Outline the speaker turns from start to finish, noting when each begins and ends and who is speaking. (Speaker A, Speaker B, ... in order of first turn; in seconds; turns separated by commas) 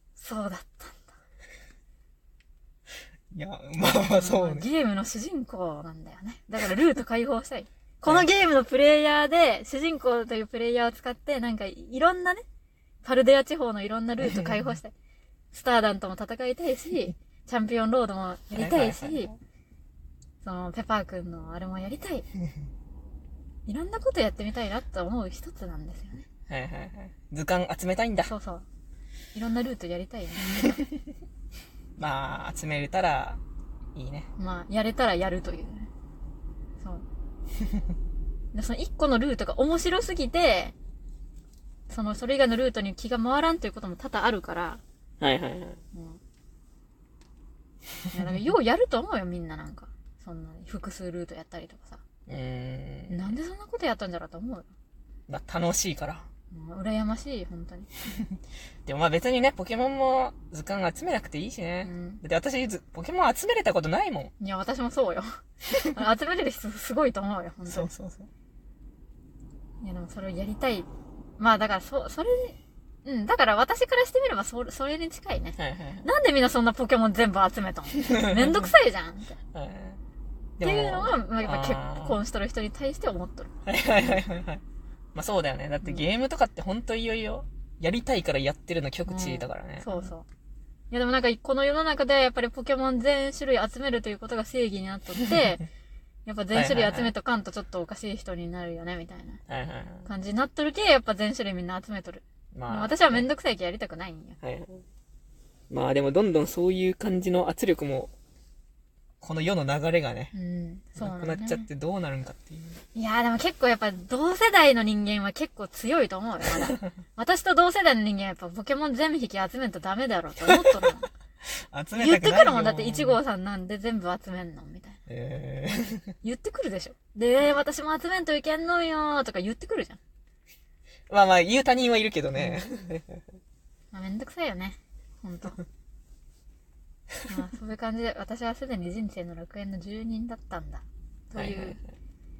Speaker A: 0.2-1.1, Speaker B: 3.3-4.7, Speaker A: 3.8-12.4, Speaker A: 13.0-14.9, Speaker B: 14.2-14.7, Speaker A: 15.5-19.3, Speaker B: 18.5-19.3, Speaker A: 20.4-22.2, Speaker A: 23.6-26.2, Speaker B: 26.5-28.3, Speaker A: 28.2-28.6, Speaker A: 29.3-30.8, Speaker B: 32.0-33.4, Speaker B: 33.9-34.3, Speaker A: 34.4-35.9, Speaker A: 36.8-37.0, Speaker A: 38.5-40.7, Speaker A: 41.9-44.8, Speaker B: 45.2-45.8, Speaker A: 45.9-46.2, Speaker A: 48.1-52.0, Speaker B: 52.3-53.3, Speaker A: 53.1-54.7, Speaker B: 55.3-56.2, Speaker A: 56.5-57.9, Speaker B: 58.9-64.3, Speaker A: 61.8-62.2, Speaker A: 64.4-67.9, Speaker B: 67.7-68.3, Speaker A: 69.8-70.9, Speaker A: 71.4-79.4, Speaker B: 75.6-76.1, Speaker B: 78.1-78.7, Speaker B: 79.5-80.0, Speaker B: 80.6-82.2, Speaker A: 80.6-83.5, Speaker B: 83.7-84.6, Speaker B: 85.1-90.1, Speaker A: 89.1-90.2, Speaker A: 90.9-95.6, Speaker A: 96.2-99.4, Speaker B: 96.5-97.1, Speaker B: 99.5-100.1, Speaker A: 100.0-104.4, Speaker B: 102.5-103.2, Speaker B: 104.4-104.8, Speaker B: 105.7-108.1, Speaker B: 109.2-110.3, Speaker A: 110.3-111.7, Speaker B: 111.0-112.8, Speaker A: 112.9-121.1, Speaker B: 121.7-123.2, Speaker A: 121.9-125.0, Speaker B: 125.1-126.1, Speaker A: 126.2-130.0, Speaker B: 131.1-133.2, Speaker A: 133.9-135.6, Speaker A: 137.3-141.8, Speaker B: 141.3-141.8